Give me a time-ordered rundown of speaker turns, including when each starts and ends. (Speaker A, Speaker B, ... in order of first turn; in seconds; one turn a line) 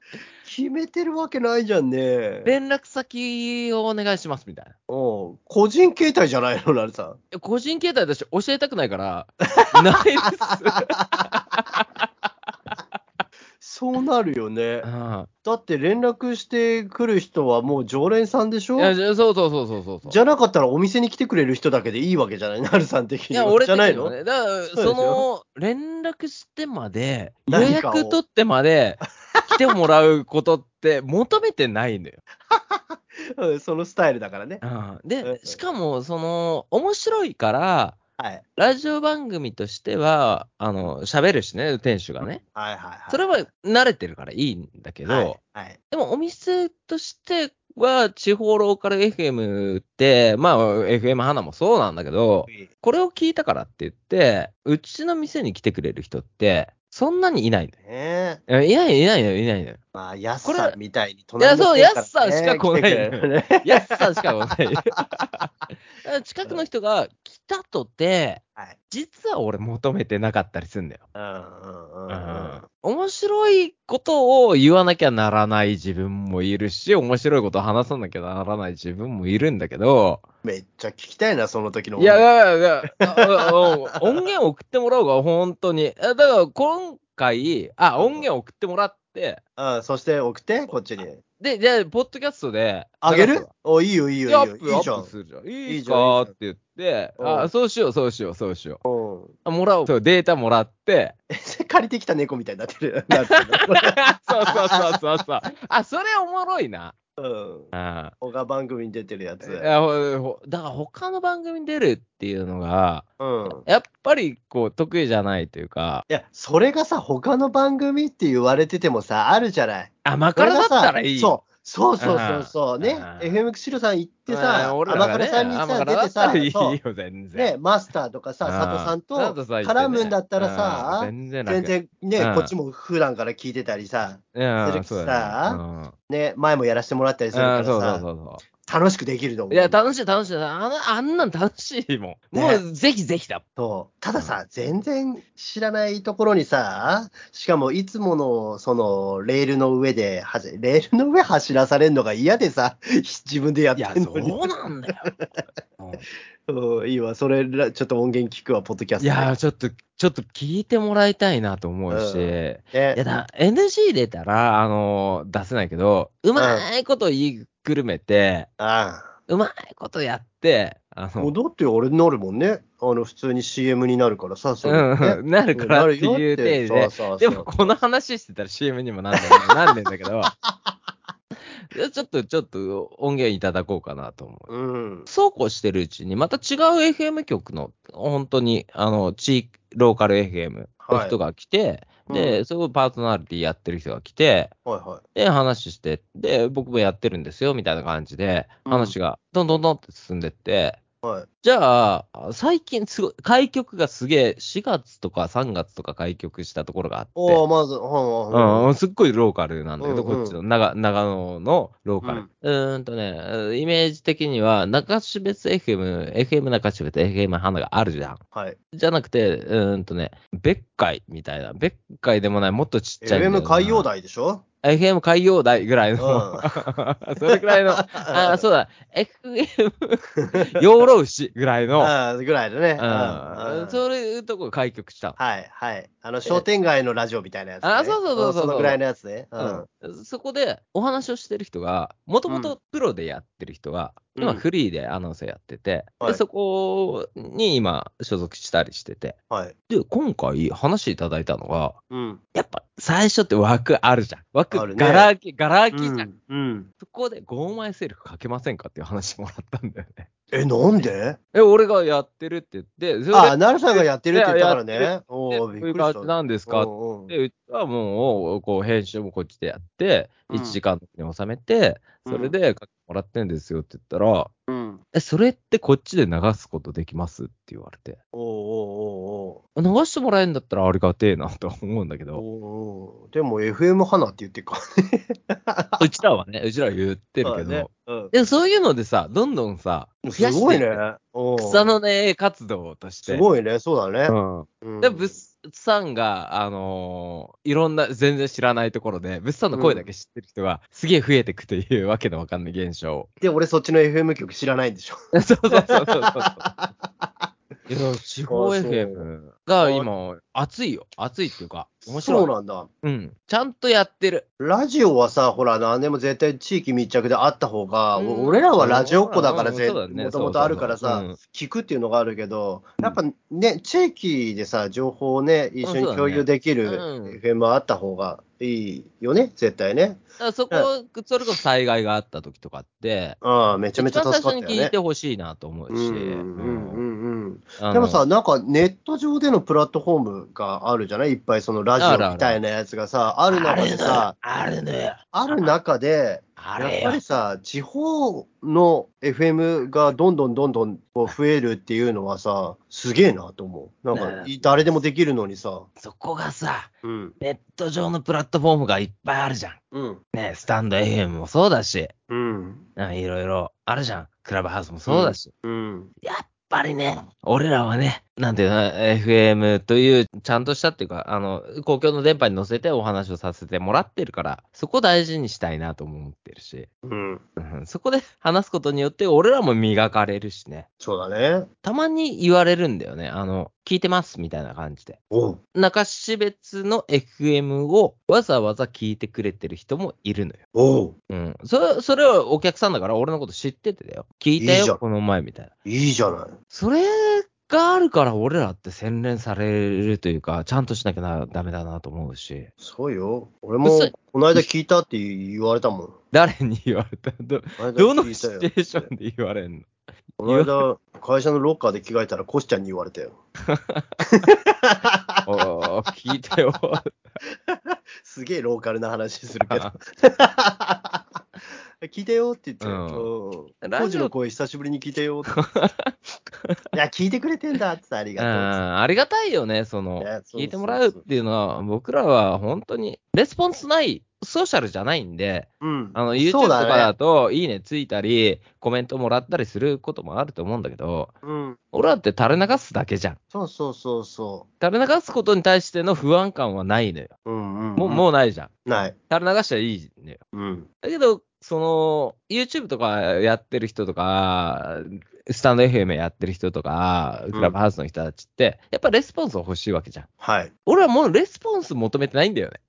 Speaker A: 0.4-2.5
Speaker B: 2.5-4.7
Speaker A: 4.9-7.2
Speaker B: 7.3-12.0
Speaker A: 10.9-11.2
Speaker A: 13.6-14.9
Speaker B: 14.8-15.3
Speaker A: 15.4-18.9
Speaker B: 18.8-20.2
Speaker A: 20.1-24.2
Speaker B: 23.3-32.2
Speaker A: 24.8-25.2
Speaker A: 27.5-28.2
Speaker A: 29.3-29.6
Speaker A: 32.5-34.6
Speaker B: 34.6-38.0
Speaker A: 35.2-35.6
Speaker A: 38.2-38.4
Speaker B: 38.6-42.4
Speaker A: 42.2-43.4
Speaker B: 43.1-45.4
Speaker A: 45.1-45.8
Speaker B: 45.9-57.7
Speaker A: 57.8-58.4
Speaker B: 58.5-59.8
Speaker A: 59.9-64.9
Speaker B: 60.4-60.8
Speaker B: 61.4-71.0
Speaker A: 71.2-72.6
Speaker B: 72.1-80.2
Speaker A: 80.4-82.2
Speaker B: 82.0-89.4
Speaker A: 83.0-84.0
Speaker A: 88.0-88.3
Speaker A: 89.6-91.2
Speaker B: 91.4-93.5
Speaker A: 93.0-95.1
Speaker B: 94.3-98.8
Speaker A: 95.7-96.3
Speaker A: 97.2-97.5
Speaker A: 98.8-99.3
Speaker B: 99.5-101.2
Speaker A: 101.3-105.0
Speaker B: 104.0-107.0
Speaker A: 107.2-109.7
Speaker B: 107.7-108.1
Speaker B: 109.4-116.0
Speaker A: 113.2-113.6
Speaker A: 116.1-126.8
Speaker B: 120.0-121.4
Speaker B: 122.0-123.4
Speaker B: 124.3-127.5
Speaker A: 127.3-138.1
Speaker B: 128.4-132.5
Speaker B: 134.3-135.9
Speaker B: 137.3-138.4
Speaker A: 138.6-139.8
Speaker B: 139.5-143.4
Speaker A: 142.3-142.6
Speaker A: 143.6-154.5
Speaker B: 153.8-155.1
Speaker B: 155.8-156.0
Speaker A: 156.5-159.3
Speaker B: 159.0-168.5
Speaker A: 161.9-163.0
Speaker A: 166.4-166.7
Speaker A: 168.6-169.1
Speaker B: 169.3-171.3
Speaker A: 171.2-177.7
Speaker B: 174.6-180.3
Speaker A: 179.2-179.6
Speaker A: 180.2-180.8
Speaker B: 181.6-184.5
Speaker A: 184.5-185.1
Speaker B: 185.1-194.5
Speaker A: 190.8-191.2
Speaker A: 192.1-192.4
Speaker A: 194.7-195.0
Speaker B: 195.2-200.8
Speaker A: 198.7-198.9
Speaker B: 201.4-207.4
Speaker A: 207.2-208.7
Speaker B: 208.3-218.2
Speaker A: 209.8-210.4
Speaker A: 212.0-212.3
Speaker B: 218.7-223.9
Speaker A: 223.0-224.4
Speaker B: 224.6-231.9
Speaker A: 226.0-226.7
Speaker A: 227.3-228.4
Speaker A: 230.2-230.6
Speaker A: 231.8-233.8
Speaker B: 232.8-235.2
Speaker A: 235.2-239.7
Speaker B: 237.6-238.8
Speaker B: 239.4-249.2
Speaker A: 242.3-242.6
Speaker A: 244.2-244.4
Speaker B: 249.7-251.8
Speaker A: 251.9-252.2
Speaker B: 252.3-256.1
Speaker A: 254.5-255.1
Speaker A: 255.7-256.7
Speaker B: 256.8-260.1
Speaker A: 260.3-261.2
Speaker B: 260.8-274.3
Speaker A: 263.1-267.1
Speaker A: 270.3-270.6
Speaker A: 272.1-272.4
Speaker A: 274.5-274.8
Speaker B: 274.9-278.0
Speaker A: 278.1-279.4
Speaker B: 279.6-282.2
Speaker A: 282.1-285.9
Speaker B: 285.8-290.8
Speaker A: 287.2-288.1
Speaker A: 290.0-291.7
Speaker B: 291.4-293.2
Speaker A: 293.1-295.1
Speaker B: 294.1-303.1
Speaker A: 299.5-299.9
Speaker A: 303.2-305.0
Speaker B: 305.1-306.4
Speaker A: 305.5-307.3
Speaker B: 307.7-312.3
Speaker A: 308.3-309.1
Speaker A: 309.6-309.9
Speaker A: 311.9-312.7
Speaker B: 312.8-314.2
Speaker A: 314.4-330.7
Speaker B: 317.9-321.2
Speaker B: 325.6-327.2
Speaker B: 330.2-333.2
Speaker A: 333.2-334.8
Speaker B: 333.8-336.8
Speaker A: 335.7-344.1
Speaker B: 337.6-338.0
Speaker B: 341.8-342.4
Speaker B: 343.3-345.6
Speaker A: 345.1-355.7
Speaker B: 346.4-347.0
Speaker B: 353.9-354.7
Speaker B: 355.8-359.6
Speaker A: 356.8-357.1
Speaker A: 359.7-360.0
Speaker B: 360.1-361.9
Speaker A: 362.1-362.6
Speaker B: 362.8-365.3
Speaker A: 364.9-365.9
Speaker B: 366.0-376.7
Speaker A: 376.8-377.2
Speaker B: 377.4-380.7
Speaker A: 380.8-381.5
Speaker B: 381.6-385.0
Speaker A: 385.1-385.4
Speaker B: 385.6-390.4
Speaker A: 390.6-390.9
Speaker B: 391.1-395.5
Speaker A: 394.4-394.8
Speaker A: 395.7-396.4
Speaker B: 396.5-402.5
Speaker A: 402.6-405.9
Speaker B: 403.6-404.5
Speaker B: 406.1-409.7
Speaker A: 407.6-408.9
Speaker A: 410.2-413.2
Speaker B: 410.2-410.6
Speaker B: 413.5-413.8
Speaker A: 414.0-415.3
Speaker B: 415.3-417.0
Speaker A: 417.5-421.0
Speaker B: 419.5-419.7
Speaker A: 421.8-425.4
Speaker B: 422.6-423.1
Speaker B: 423.6-424.1
Speaker B: 425.4-425.9
Speaker A: 426.7-428.6
Speaker B: 428.2-441.1
Speaker A: 430.0-431.0
Speaker A: 435.6-436.9
Speaker A: 441.2-441.6
Speaker B: 441.7-443.2
Speaker A: 443.3-444.5
Speaker B: 444.6-447.1
Speaker A: 447.3-448.0
Speaker B: 447.8-448.5
Speaker A: 448.7-449.0
Speaker B: 449.1-450.2
Speaker A: 450.3-450.7
Speaker B: 450.8-460.1
Speaker A: 460.2-460.5
Speaker B: 460.7-462.6